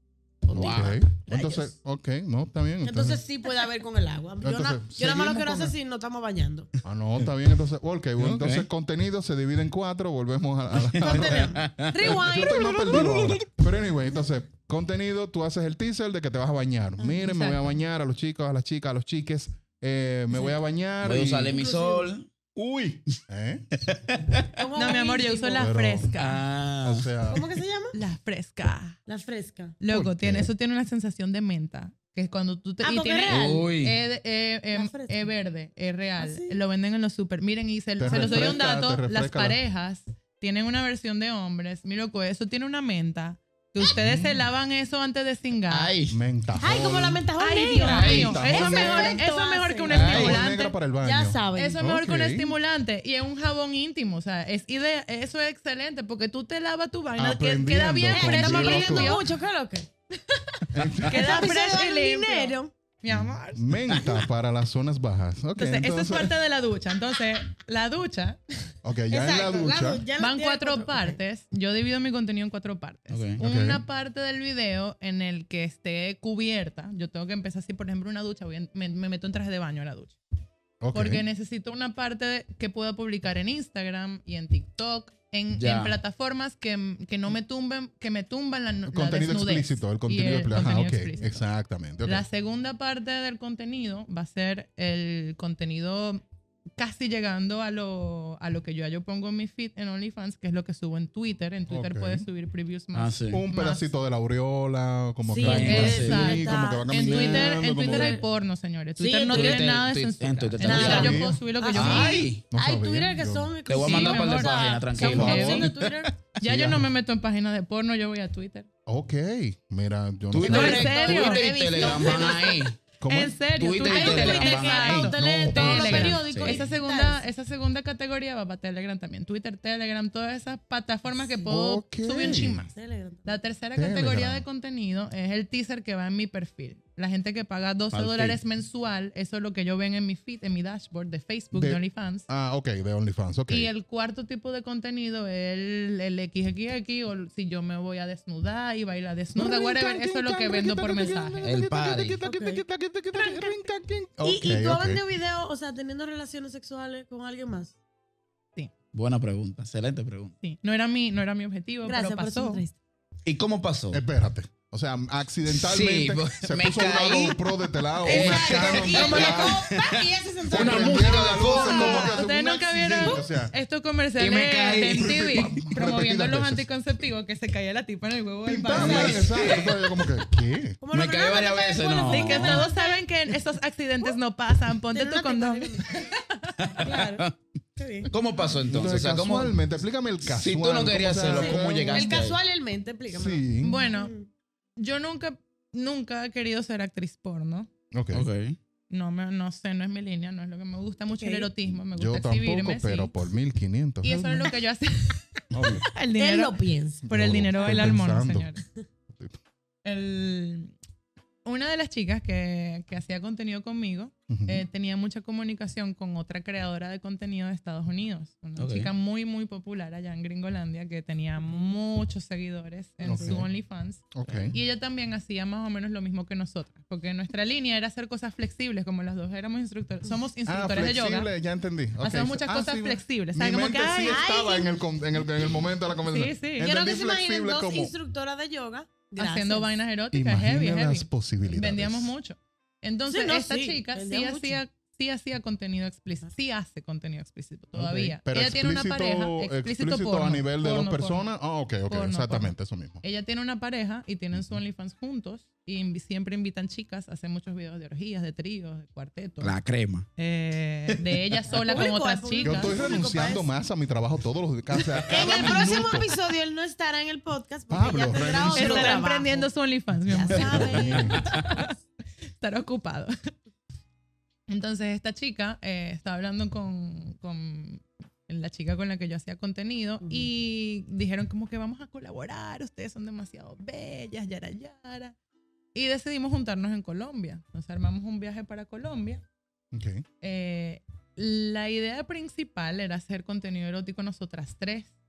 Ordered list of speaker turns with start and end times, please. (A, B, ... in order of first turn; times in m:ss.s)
0:00.5-0:01.0 A
0:00.5-0:03.2 B
0:01.2-0:01.7 C
0:02.8-0:06.7 C
0:04.4-0:05.7 B
0:06.8-0:21.6 B
0:08.2-0:08.7 A
0:10.8-0:12.2 A
0:11.0-0:13.4 C
0:12.9-0:13.2 A
0:17.2-0:17.8 D
0:21.0-0:22.3 A
0:21.5-0:22.1 C
0:22.5-0:23.7 B
0:23.8-0:24.5 A
0:24.5-0:25.7 C
0:24.7-0:26.4 D
0:25.6-0:26.1 B
0:26.2-0:27.1 A
0:26.8-0:27.5 B
0:27.3-0:28.0 C
0:27.9-0:29.0 D
0:29.0-0:29.8 C
0:29.8-0:45.9 D
0:29.9-0:30.5 B
0:32.8-0:33.7 C
0:33.3-0:34.0 A
0:34.7-0:35.3 C
0:36.2-0:36.6 C
0:38.0-0:39.6 B
0:43.9-0:44.4 B
0:45.7-0:46.2 A
0:46.1-0:47.2 B
0:46.6-0:50.4 C
0:47.4-0:50.7 D
0:47.8-0:48.4 A
0:48.0-0:49.2 B
0:49.9-0:50.4 A
0:49.9-0:52.5 B
0:51.0-0:51.8 C
0:51.5-0:59.2 D
0:57.2-0:59.2 B
0:58.1-0:59.9 C
1:00.7-1:01.5 B
1:01.0-1:03.8 D
1:01.1-1:02.7 C
1:03.1-1:06.3 B
1:03.9-1:04.2 A
1:05.6-1:08.4 D
1:08.8-1:10.0 B
1:09.1-1:11.2 C
1:10.2-1:20.2 D
1:13.1-1:13.4 A
1:13.4-1:13.8 B
1:20.8-1:21.2 B
1:20.9-1:31.3 D
1:25.5-1:25.9 A
1:28.9-1:32.2 B
1:32.0-1:36.2 D
1:36.8-1:43.9 D
1:41.7-1:42.3 B
1:42.9-1:43.4 A
1:43.3-1:48.2 B
1:45.3-1:48.2 C
1:45.4-1:46.4 A
1:45.4-1:52.3 D
1:49.0-1:49.7 C
1:49.3-1:52.4 A
1:50.6-1:56.1 C
1:50.7-1:51.4 B
1:52.5-1:53.5 B
1:53.7-1:56.1 A
1:53.7-1:55.6 D
1:54.9-1:55.7 B
1:56.4-1:58.7 D
1:56.4-1:56.9 B
1:58.8-2:00.9 B
2:00.3-2:02.8 A
2:00.4-2:02.6 C
2:00.4-2:02.2 D
2:03.0-2:03.4 B
2:03.0-2:12.7 D
2:03.6-2:05.1 A
2:03.7-2:07.3 C
2:05.2-2:06.6 B
2:11.5-2:12.6 B
2:12.2-2:13.4 C
2:13.2-2:22.2 D
2:13.8-2:14.4 B
2:17.9-2:18.4 A
2:21.5-2:23.7 B
2:23.5-2:31.4 D
2:29.4-2:35.0 B
2:31.4-2:32.2 A
2:32.2-2:32.6 C
2:33.1-2:33.6 C
2:34.2-2:37.7 C
2:38.9-2:40.3 A
2:40.4-2:42.6 D
2:41.8-2:42.8 C
2:43.2-2:44.0 A
2:43.9-2:49.6 B
2:45.5-2:47.5 A
2:48.0-2:52.2 C
2:48.0-2:52.1 A
2:50.5-2:53.5 B
2:51.4-2:59.3 D
2:54.2-2:55.7 A
2:54.9-2:56.6 B
2:58.4-3:00.8 B
2:58.7-3:00.1 A
2:58.8-2:59.3 C
3:00.8-3:03.0 C
3:00.9-3:02.6 A
3:02.1-3:06.1 D
3:04.9-3:06.1 C
3:06.6-3:07.4 A
3:06.8-3:07.2 C
3:07.8-3:08.6 C
3:08.1-3:09.6 A
3:08.6-3:12.2 B
3:10.2-3:12.4 A
3:11.3-3:14.3 C
3:13.1-3:13.8 B
3:13.6-3:14.1 D
3:14.8-3:17.7 D
3:17.9-3:18.2 B
3:18.1-3:18.6 A
3:18.9-3:23.1 D
3:21.2-3:21.5 C
3:21.9-3:24.5 B
3:24.0-3:28.6 D
3:25.5-3:25.8 B
3:26.2-3:27.1 C
3:27.1-3:28.5 B
3:29.1-3:29.4 B
3:29.8-3:30.7 D
3:31.4-3:51.3 D
3:34.3-3:34.6 B
3:38.6-3:38.9 A
3:43.0-3:43.5 B
3:44.1-3:44.6 B
3:50.4-3:57.9 B
3:52.0-3:54.2 D
3:54.0-3:54.7 C
3:56.1-3:56.7 D
3:56.6-3:59.8 C
3:59.2-4:11.3 D
4:00.1-4:02.1 B
4:03.1-4:04.6 C
4:07.7-4:13.0 B
4:11.9-4:19.6 D
4:19.4-4:20.1 A
4:20.2-4:22.8 D
4:21.5-4:23.5 C
4:22.4-4:26.1 B
4:25.0-4:29.5 C
4:25.2-4:25.5 A
4:27.7-4:29.0 B
4:28.5-4:31.7 D
4:30.1-4:31.7 C
4:30.3-4:31.2 B
4:30.6-4:31.3 A
4:32.4-4:33.1 D
4:34.5-4:45.2 D
4:40.0-4:40.3 C
4:45.7-4:49.2 D
4:49.7-4:50.0 B
4:50.2-4:54.9 D